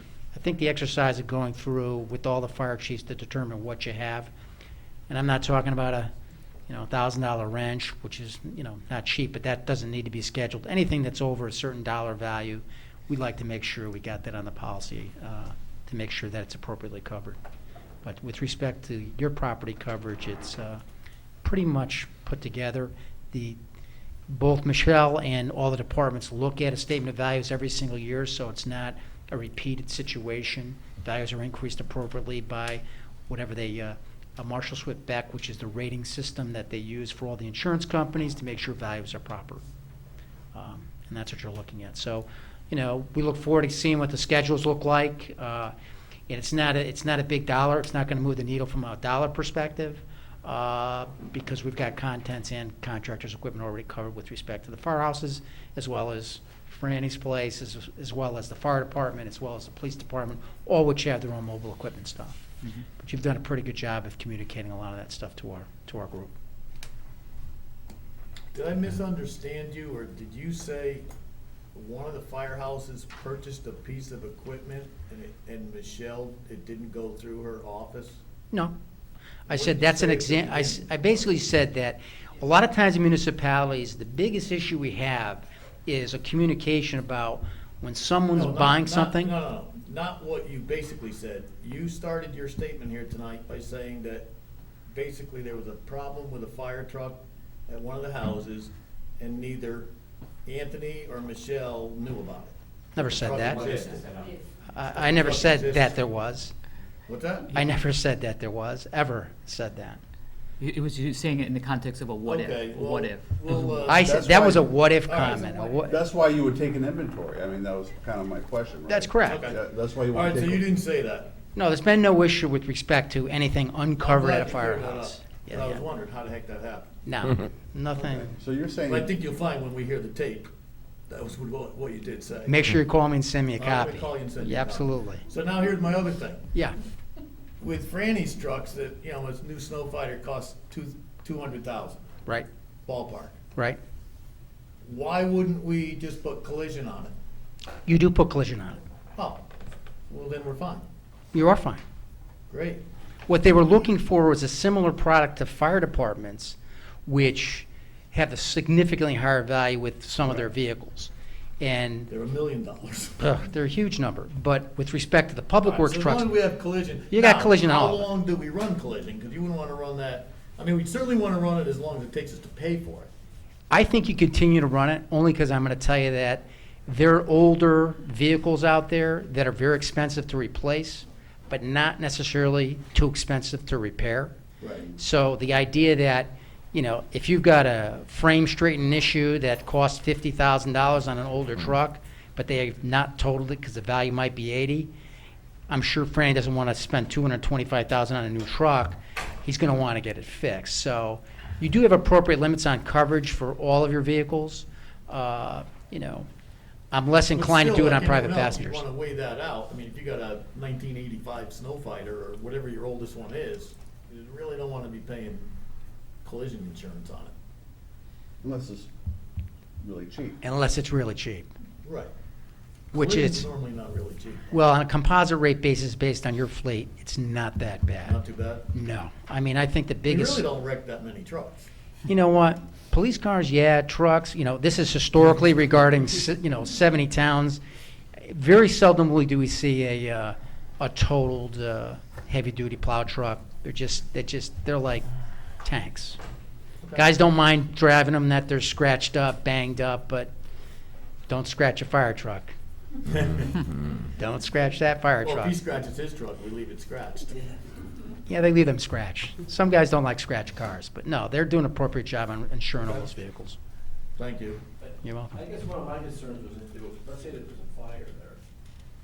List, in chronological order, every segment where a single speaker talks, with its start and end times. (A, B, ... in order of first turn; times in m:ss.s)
0:00.3-0:04.3 A
0:05.1-0:06.1 A
0:06.7-0:17.4 A
0:18.0-0:20.8 A
0:21.4-0:23.6 A
0:24.3-0:39.6 A
0:40.5-0:45.7 A
0:46.3-1:06.3 A
1:08.5-1:11.1 B
1:11.7-1:18.2 B
1:19.4-1:29.3 A
1:19.5-1:21.4 B
1:28.3-1:34.3 B
1:34.9-1:39.9 B
1:40.4-1:44.2 B
1:43.0-1:43.6 A
1:43.6-1:44.3 C
1:44.7-1:46.5 A
1:44.9-1:46.0 B
1:47.1-1:47.5 B
1:47.5-1:50.0 A
1:50.6-1:53.8 D
1:52.2-1:55.8 B
1:53.8-1:56.0 A
1:53.9-1:54.7 E
1:55.8-2:00.7 E
1:58.9-1:59.5 A
1:59.2-2:01.3 B
2:01.6-2:05.8 A
2:04.0-2:06.9 B
2:07.0-2:08.4 A
2:08.3-2:09.1 E
2:08.8-2:10.5 B
2:11.1-2:12.7 B
2:12.4-2:15.2 A
2:13.6-2:16.4 B
2:17.6-2:22.1 B
2:22.8-2:23.4 B
2:24.8-2:27.1 B
2:27.8-2:28.8 A
2:29.2-2:29.5 B
2:30.1-2:30.8 B
2:31.3-2:31.8 A
2:32.5-2:32.8 B
2:33.3-2:42.1 A
2:42.1-2:43.2 B
2:43.2-2:46.3 A
2:45.6-2:53.1 B
2:47.1-2:48.1 A
2:53.7-3:04.3 A
3:04.6-3:04.9 B
3:05.0-3:14.9 A
3:15.7-3:26.3 A
3:26.9-3:28.8 A
3:27.3-3:35.5 B
3:36.2-3:37.3 B
3:38.4-3:38.9 E
3:39.8-3:40.4 E
3:40.4-3:41.5 A
3:41.8-3:42.1 B
3:42.9-3:43.5 A
3:42.9-3:44.6 B
3:44.5-3:48.2 A
3:48.0-3:48.7 B
3:48.7-3:50.4 A
3:50.1-3:51.7 B
3:52.0-3:57.6 A
3:58.2-4:05.0 A
4:05.6-4:06.2 A
4:06.8-4:07.1 B
4:06.9-4:10.3 A
4:11.3-4:12.5 A
4:13.1-4:13.5 B
4:14.2-4:15.6 A
4:15.2-4:17.5 B
4:18.3-4:23.6 A
4:24.2-4:24.6 B
4:25.0-4:25.4 A
4:25.3-4:28.4 C